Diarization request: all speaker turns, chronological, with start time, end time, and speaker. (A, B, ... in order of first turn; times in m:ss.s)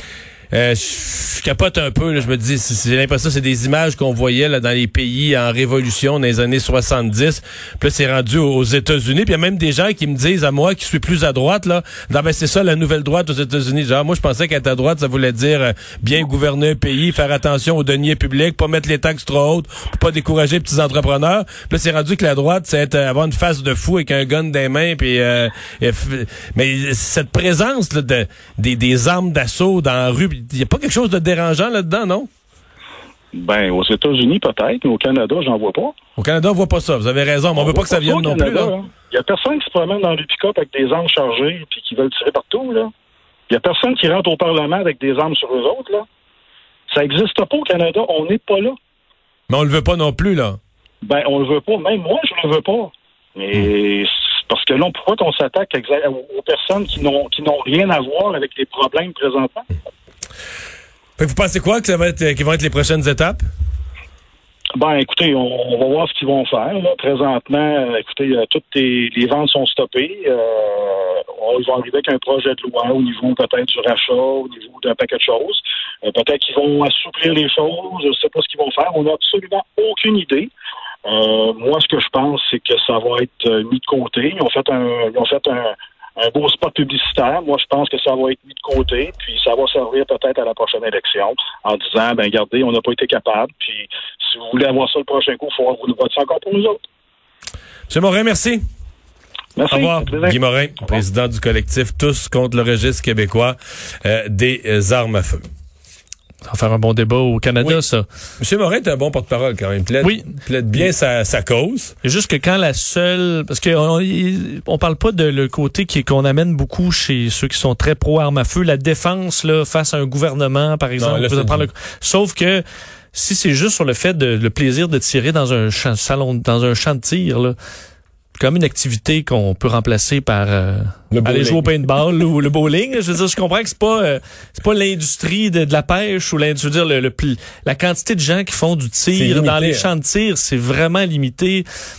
0:00.5-0:32.3 A
0:33.3-0:35.9 B
0:36.2-0:38.7 A
0:37.6-0:42.9 B
0:43.5-0:46.0 B
0:46.9-0:48.7 B
0:49.5-0:50.6 A
0:51.0-0:59.7 B
1:01.2-1:03.4 A
1:04.8-1:20.5 B
1:21.1-1:36.8 B
1:37.9-1:38.6 A
1:39.6-1:40.4 B
1:39.7-1:45.4 A
1:46.5-1:48.0 C
1:48.4-1:51.9 A
1:50.0-1:50.3 C
1:52.0-2:02.6 C
2:01.0-2:01.7 A
2:03.1-2:07.6 C
2:08.4-2:21.6 C
2:11.1-2:11.6 A
2:19.1-2:19.9 A